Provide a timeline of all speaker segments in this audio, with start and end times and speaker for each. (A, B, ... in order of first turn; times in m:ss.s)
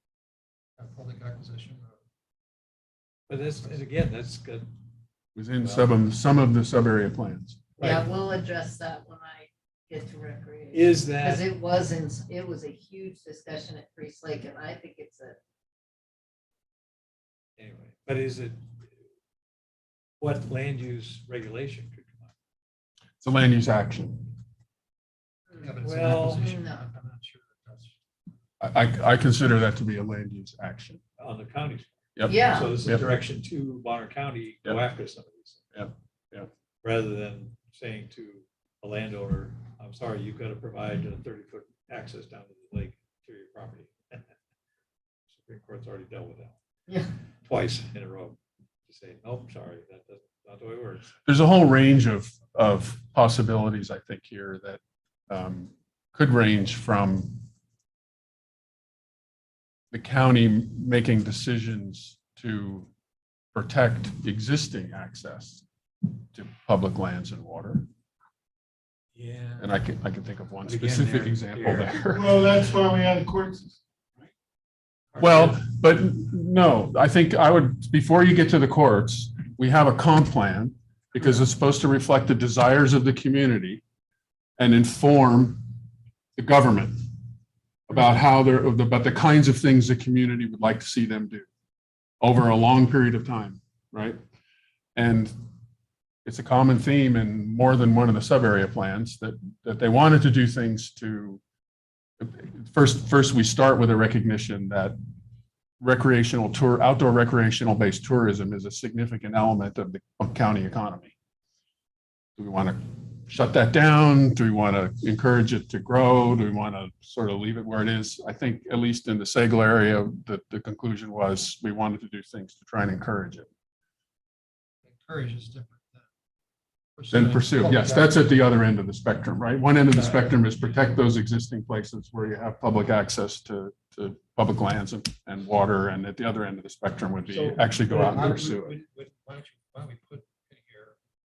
0:00.8-0:02.0 A
0:03.3-0:04.7 B
0:05.4-0:07.6 C
0:05.6-0:05.9 B
0:07.8-0:08.1 B
0:07.8-0:15.4 D
0:10.7-0:11.4 B
0:17.6-0:18.9 B
0:20.2-0:22.3 B
0:23.2-0:24.3 C
0:25.5-0:28.0 A
0:25.8-0:26.4 B
0:26.2-0:26.8 D
0:28.6-0:31.0 C
0:31.2-0:35.6 B
0:32.2-0:33.0 C
0:32.3-0:32.7 D
0:35.7-0:36.5 C
0:36.8-0:44.2 B
0:45.3-0:46.6 B
0:47.4-0:48.4 B
0:48.9-0:51.1 B
0:51.2-0:57.4 C
0:59.9-1:02.9 C
1:03.5-1:07.9 C
1:09.2-1:09.7 B
1:09.6-1:12.5 C
1:10.6-1:12.1 B
1:12.1-1:14.3 E
1:15.1-1:15.6 B
1:15.2-1:23.8 C
1:24.6-1:25.8 C
1:26.4-1:27.2 C
1:27.9-1:31.5 C
1:32.2-1:34.2 C
1:35.0-1:35.3 C
1:36.2-1:41.4 C
1:42.2-1:45.0 C
1:45.8-1:51.1 C
1:52.4-2:03.5 C
2:04.8-2:06.1 A
2:07.0-2:08.2 A
2:07.1-2:18.8 C
2:09.9-2:10.3 B
2:17.3-2:21.0 A
2:17.9-2:18.3 B